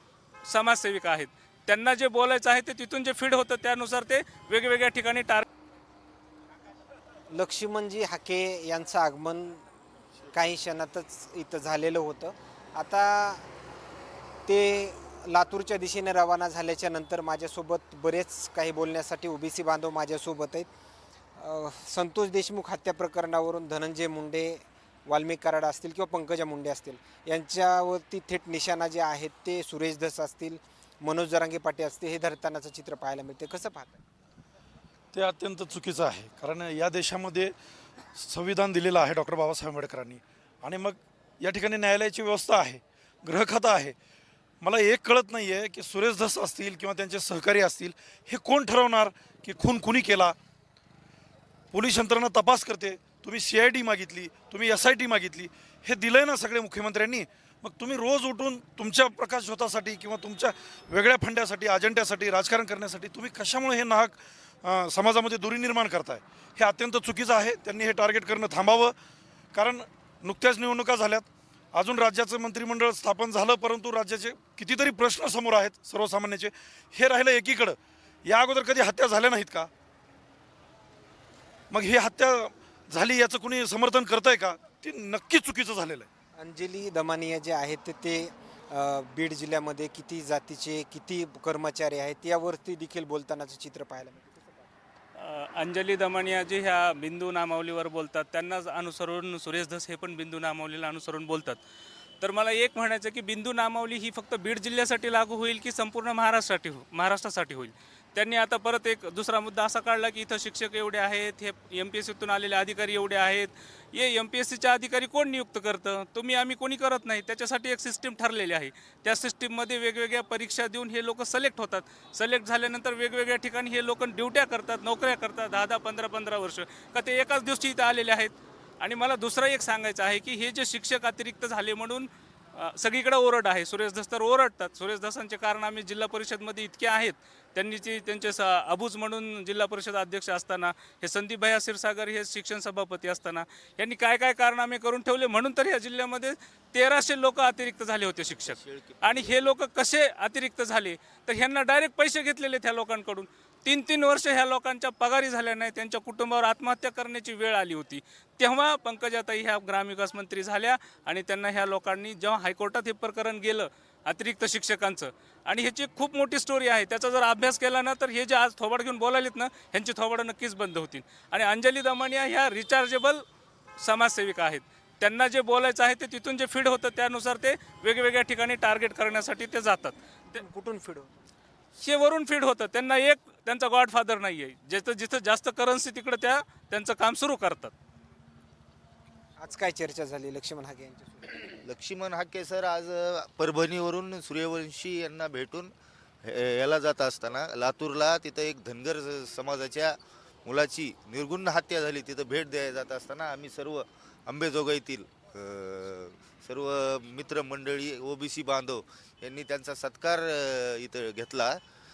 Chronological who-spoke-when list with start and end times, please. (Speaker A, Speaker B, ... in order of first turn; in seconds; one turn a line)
Speaker A: 0.4-5.4
Speaker B: 7.3-9.6
Speaker B: 10.3-13.5
Speaker B: 14.4-20.7
Speaker B: 21.4-34.0
Speaker C: 35.1-37.5
Speaker C: 38.1-43.9
Speaker C: 44.6-50.3
Speaker C: 51.7-68.9
Speaker C: 69.5-79.7
Speaker C: 81.7-86.1
Speaker B: 86.4-94.6
Speaker A: 95.2-101.6
Speaker A: 102.2-173.2
Speaker D: 148.4-149.3
Speaker A: 173.8-180.0
Speaker B: 180.3-181.1
Speaker A: 181.8-187.7
Speaker B: 189.4-191.3
Speaker D: 191.6-195.7
Speaker D: 196.2-211.6